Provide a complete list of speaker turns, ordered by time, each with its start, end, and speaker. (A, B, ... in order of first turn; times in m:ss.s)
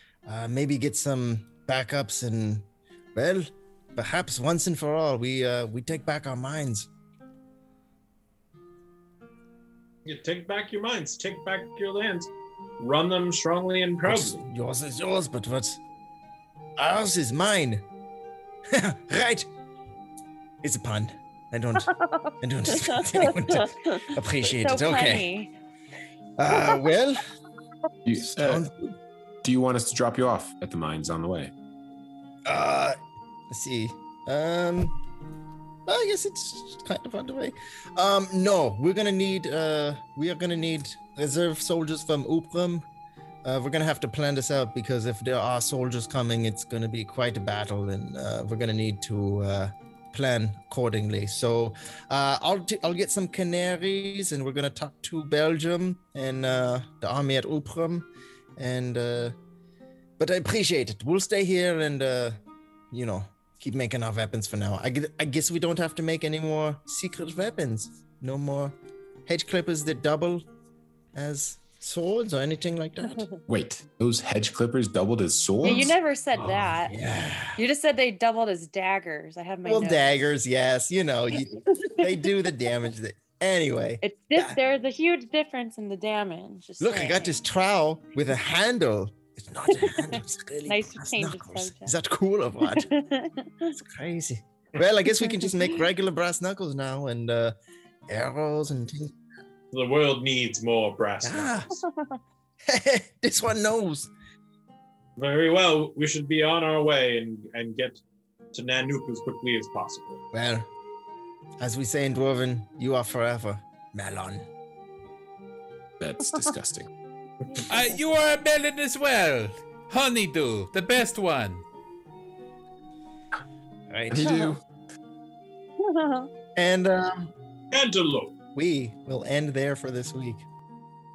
0:00.2-0:06.9 A
0:10.0-0:14.4 B
0:14.0-0:15.8 A
0:16.8-0:17.8 A
0:18.7-0:19.4 A
0:20.6-0:25.3 A
0:21.9-0:25.5 C
0:26.4-0:27.2 A
0:26.5-0:26.8 C
0:28.0-0:28.6 D
0:28.2-0:29.0 A
0:29.4-0:31.5 D
0:32.4-0:33.0 A
0:33.5-0:35.0 A
0:35.9-0:42.8 A
0:43.4-0:59.3 A
1:00.2-1:02.4 A
1:02.9-1:08.7 A
1:09.3-1:10.4 A
1:11.1-1:13.3 A
1:13.5-1:15.9 D
1:15.6-1:17.0 C
1:16.4-1:17.6 A
1:17.6-1:20.1 C
1:19.6-1:24.6 A
1:21.4-1:22.2 C
1:24.0-1:27.4 C
1:26.8-1:32.9 A
1:29.7-1:30.2 C
1:30.7-1:31.9 C
1:32.6-1:33.8 C
1:33.7-1:37.5 A
1:35.2-1:35.8 C
1:38.1-1:39.2 A
1:39.7-1:41.5 B
1:41.2-1:41.8 A
1:41.8-1:42.2 C
1:42.6-1:44.1 A
1:45.2-1:48.0 B
1:48.5-1:50.2 B
1:50.3-1:50.7 A
1:51.6-1:54.5 A
1:56.0-1:56.9 D
1:57.7-2:01.6 E
2:03.9-2:04.5 A
2:04.1-2:04.6 D
2:05.8-2:06.3 C
2:06.6-2:07.3 A
2:07.7-2:08.3 B
2:08.5-2:10.4 A